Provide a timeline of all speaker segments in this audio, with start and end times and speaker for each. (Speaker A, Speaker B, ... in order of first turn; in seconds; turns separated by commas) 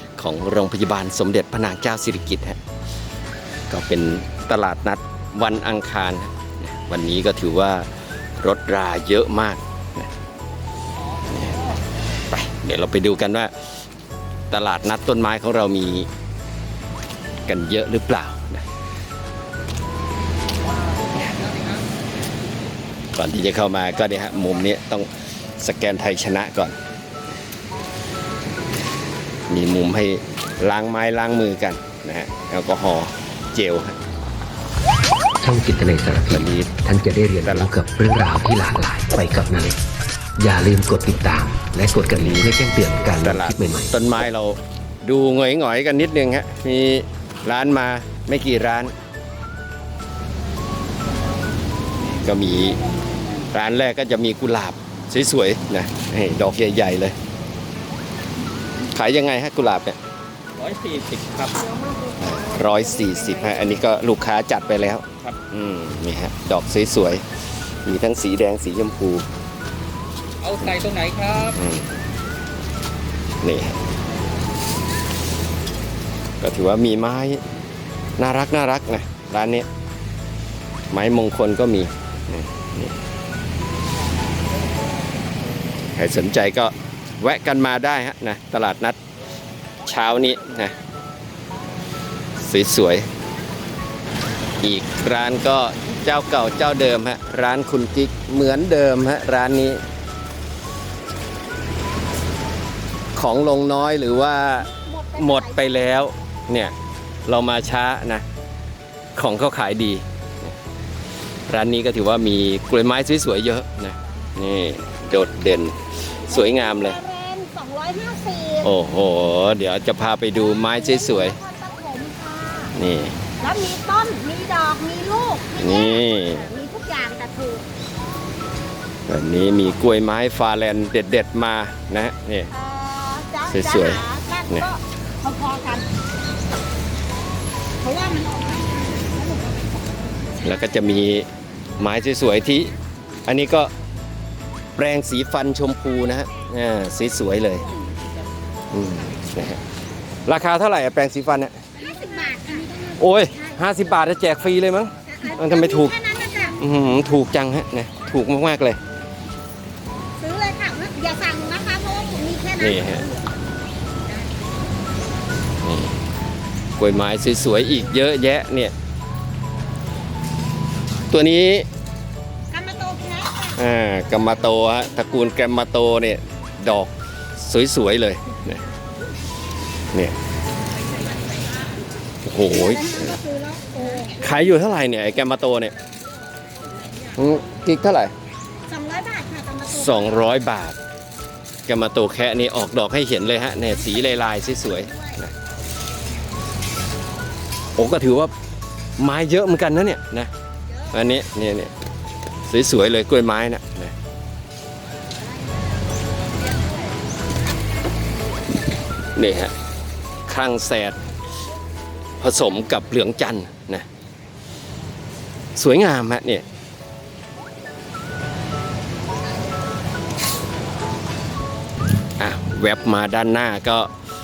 Speaker A: 0.2-2.6, Speaker A: 3.7-10.1, Speaker A: 11.3-11.6, Speaker A: 12.3-13.5, Speaker A: 14.5-16.1, Speaker A: 17.5-18.6, Speaker A: 23.1-26.8, Speaker A: 29.5-34.0, Speaker B: 35.4-39.8, Speaker A: 36.3-36.8, Speaker B: 40.4-43.9, Speaker A: 42.2-42.5, Speaker A: 43.1-48.9, Speaker A: 52.2-52.8, Speaker A: 53.5-57.2, Speaker A: 58.9-60.0, Speaker C: 60.6-61.7, Speaker D: 61.7-62.1, Speaker A: 62.2-67.2, Speaker A: 67.8-69.2, Speaker C: 70.4-71.5, Speaker A: 71.4-71.9, Speaker A: 73.4-73.8, Speaker A: 76.4-77.4, Speaker A: 78.2-79.7, Speaker A: 80.9-83.0, Speaker A: 85.8-89.0, Speaker A: 89.8-90.7, Speaker A: 92.4-93.1, Speaker A: 94.6-99.8, Speaker A: 103.2-106.7, Speaker D: 104.6-105.7, Speaker A: 107.3-108.2, Speaker A: 109.2-110.5, Speaker A: 111.5-117.0, Speaker D: 116.3-118.7, Speaker A: 118.6-121.4, Speaker D: 120.3-122.8, Speaker A: 122.7-123.2, Speaker D: 123.4-127.7, Speaker A: 125.6-126.5, Speaker A: 129.1-132.5, Speaker D: 132.5-135.9, Speaker A: 133.5-134.7, Speaker D: 137.8-140.3, Speaker A: 140.4-141.3, Speaker A: 141.8-142.7, Speaker A: 143.2-143.7, Speaker A: 144.8-147.7, Speaker D: 147.5-148.0, Speaker A: 148.7-149.6, Speaker A: 150.3-151.6, Speaker D: 151.8-153.6, Speaker A: 153.0-156.0, Speaker D: 155.0-156.6, Speaker A: 156.6-158.8, Speaker D: 160.2-163.3, Speaker A: 162.6-163.1, Speaker A: 165.6-166.0, Speaker A: 166.8-168.7, Speaker A: 171.1-171.7, Speaker D: 172.5-173.6, Speaker A: 173.5-178.6, Speaker A: 182.2-183.2, Speaker D: 182.5-184.6, Speaker A: 184.2-185.7, Speaker A: 187.1-188.1, Speaker D: 188.7-190.2, Speaker A: 189.7-190.8, Speaker A: 191.7-195.3, Speaker D: 193.7-195.2, Speaker A: 197.8-198.3, Speaker A: 199.0-200.3, Speaker A: 200.9-201.7, Speaker A: 202.4-203.9, Speaker A: 209.1-209.5, Speaker A: 210.3-211.0, Speaker A: 212.2-213.9, Speaker A: 215.6-216.4, Speaker A: 222.2-223.9